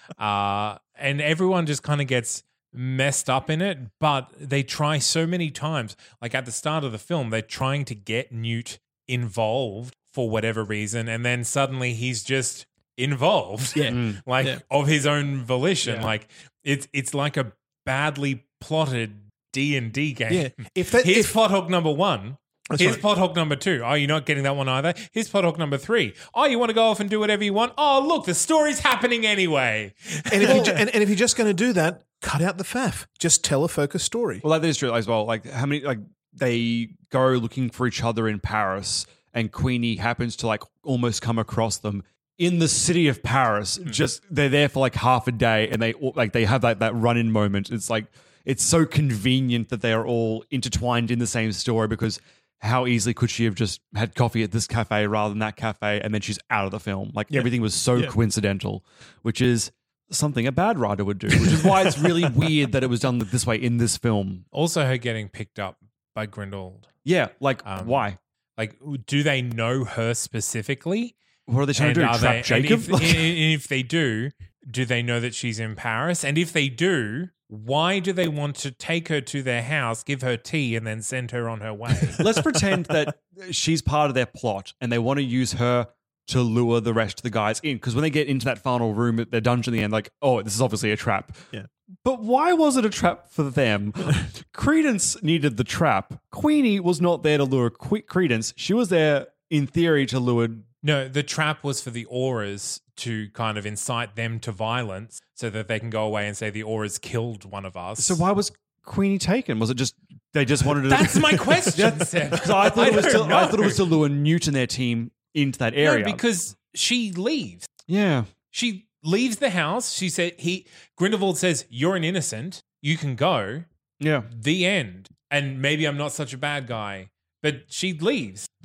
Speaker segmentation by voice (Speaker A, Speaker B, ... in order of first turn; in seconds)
Speaker A: 0.2-30.7, 64.5-66.9, 67.6-71.1, 71.8-82.2, 100.8-108.2, 110.7-113.8, 115.8-117.7, 118.5-123.7, 124.3-128.5
Speaker B: 13.7-14.6, 20.3-21.4, 22.7-23.0, 30.3-34.4, 57.3-58.1, 61.5-62.3
Speaker C: 13.9-14.2, 30.4-30.8, 34.4-64.4, 67.0-68.2, 71.5-73.3, 82.2-91.4, 92.0-100.7, 108.0-116.2, 117.9-118.3, 124.0-124.3